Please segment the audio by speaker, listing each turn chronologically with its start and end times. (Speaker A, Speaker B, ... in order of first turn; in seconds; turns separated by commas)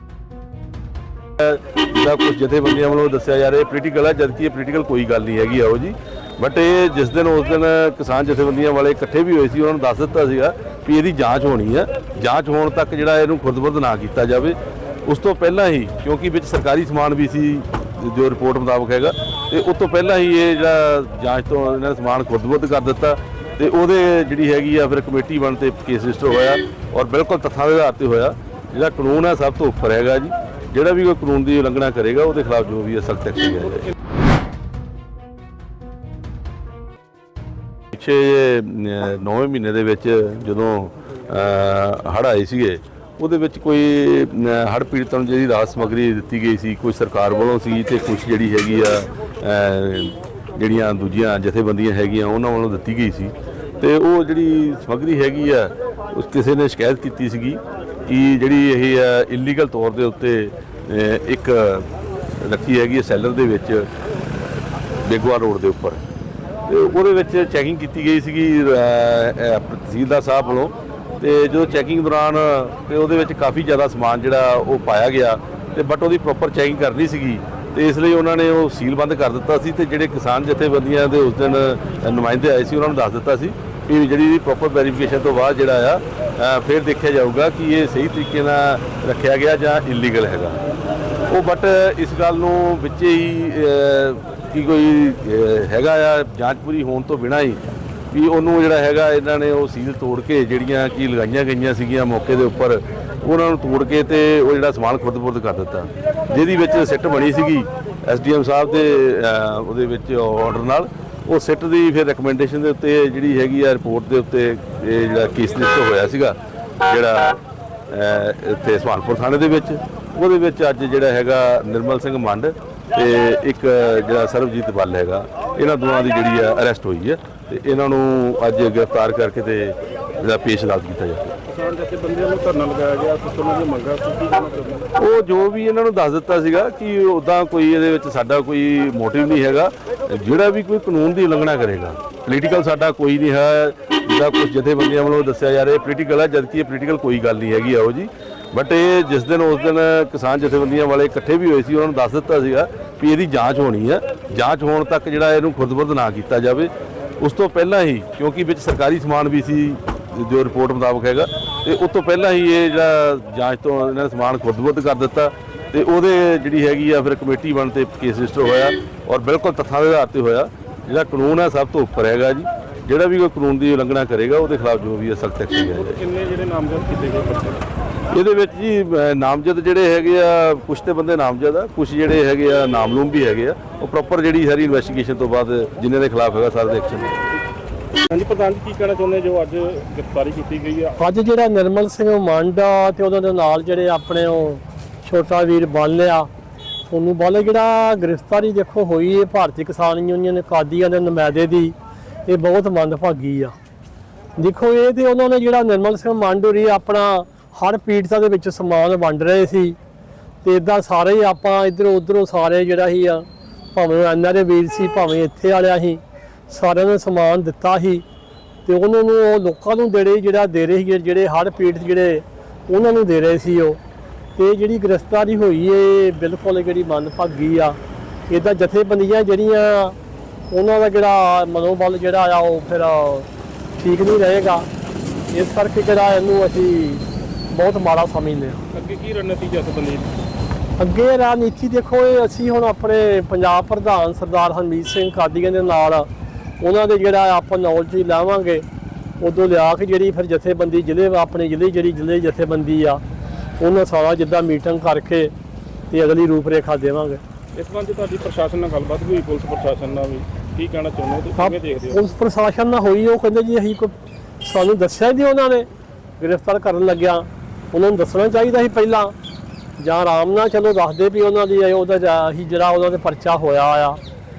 Speaker A: 1.4-33.9, Speaker A: 37.9-63.9, Speaker A: 65.0-66.0, Speaker A: 66.7-90.6, Speaker A: 91.3-97.6, Speaker A: 98.1-131.4, Speaker B: 131.5-134.9, Speaker A: 134.9-176.0, Speaker B: 175.7-177.7, Speaker A: 178.1-187.2, Speaker B: 188.1-191.0, Speaker C: 191.0-196.3, Speaker C: 196.9-201.8, Speaker C: 202.3-203.5, Speaker C: 204.4-209.8, Speaker C: 210.4-218.0, Speaker C: 218.6-223.8, Speaker C: 224.3-229.9, Speaker C: 230.5-234.7, Speaker C: 235.3-238.6, Speaker B: 238.7-240.1, Speaker C: 240.8-246.1, Speaker C: 246.6-248.7, Speaker C: 249.2-253.0, Speaker C: 253.6-255.3, Speaker C: 255.9-257.2, Speaker B: 257.6-262.0, Speaker C: 261.4-265.7, Speaker C: 266.2-269.1, Speaker C: 269.8-274.0